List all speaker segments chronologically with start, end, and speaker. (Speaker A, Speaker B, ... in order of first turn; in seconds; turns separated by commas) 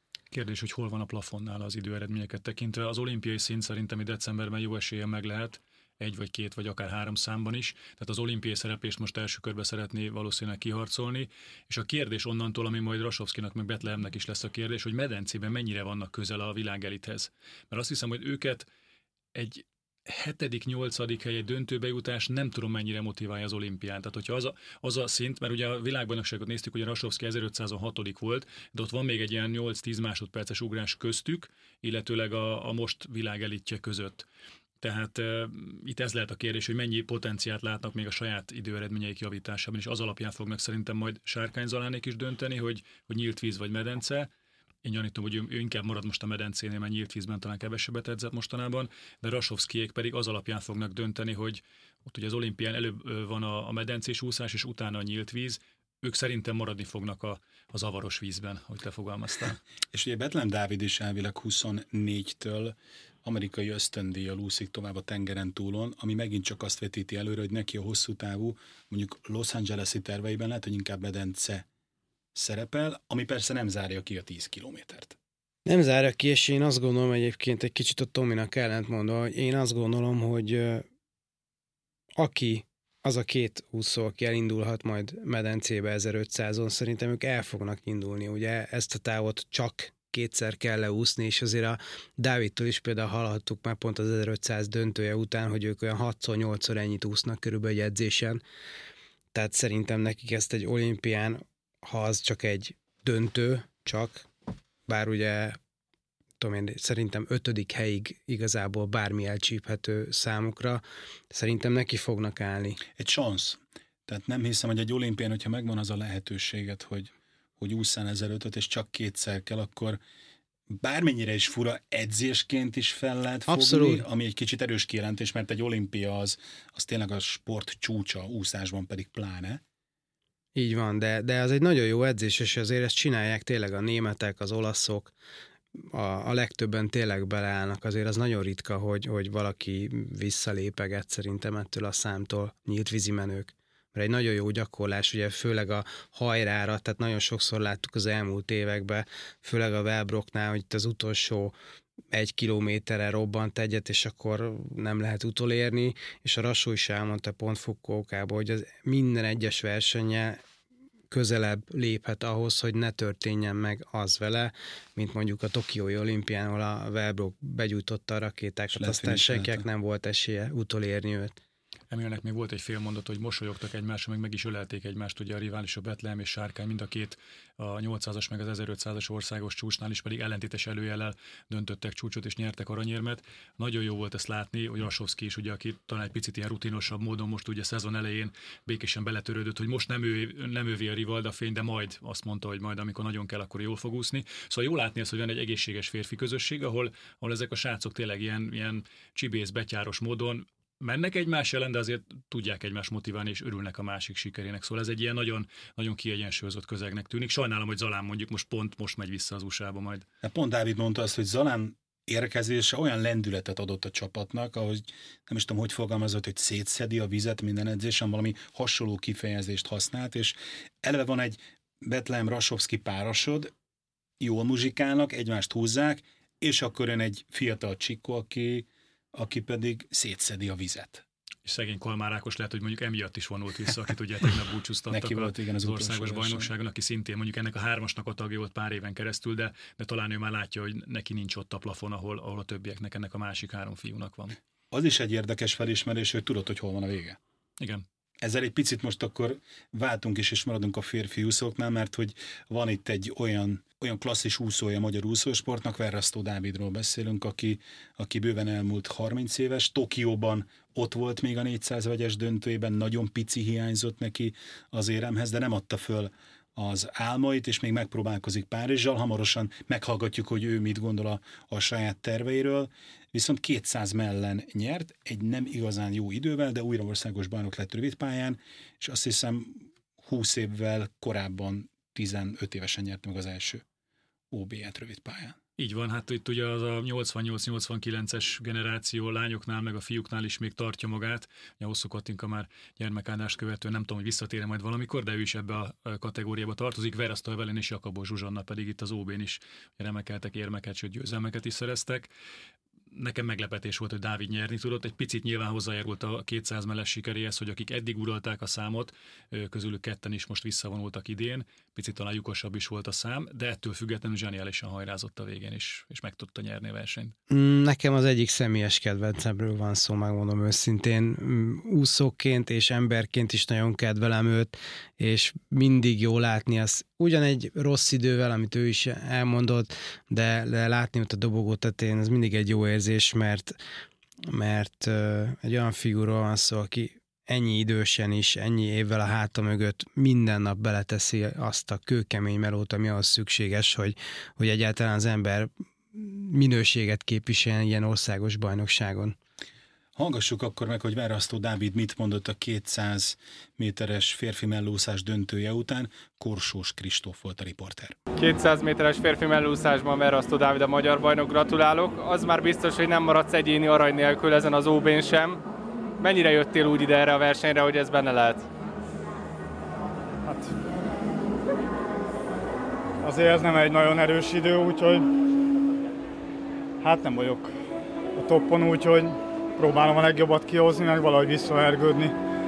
Speaker A: 0.3-18.6, Speaker A: 19.3-34.2, Speaker A: 34.8-44.3, Speaker A: 44.8-59.6, Speaker B: 59.9-71.7, Speaker B: 72.3-75.2, Speaker C: 75.7-80.8, Speaker C: 82.2-98.4, Speaker C: 99.3-104.3, Speaker C: 104.9-105.6, Speaker C: 106.4-112.8, Speaker B: 112.9-120.0, Speaker B: 120.7-129.6, Speaker C: 123.5-124.0, Speaker C: 130.6-135.1, Speaker C: 135.8-151.5, Speaker C: 152.1-160.4, Speaker C: 161.1-171.4, Speaker B: 168.7-169.6, Speaker A: 171.9-210.1, Speaker B: 210.2-223.5, Speaker B: 224.2-231.0, Speaker A: 231.4-244.4, Speaker B: 234.9-236.5, Speaker B: 244.7-247.2, Speaker A: 247.6-247.8, Speaker B: 248.2-283.6, Speaker B: 284.3-285.4, Speaker A: 285.6-302.1, Speaker A: 302.9-317.1, Speaker C: 317.3-333.5, Speaker C: 334.3-349.1, Speaker B: 349.9-357.9, Speaker D: 358.2-365.4, Speaker D: 366.0-368.5, Speaker E: 370.2-370.5, Speaker E: 373.0-375.0, Speaker E: 376.8-377.5, Speaker E: 378.1-382.1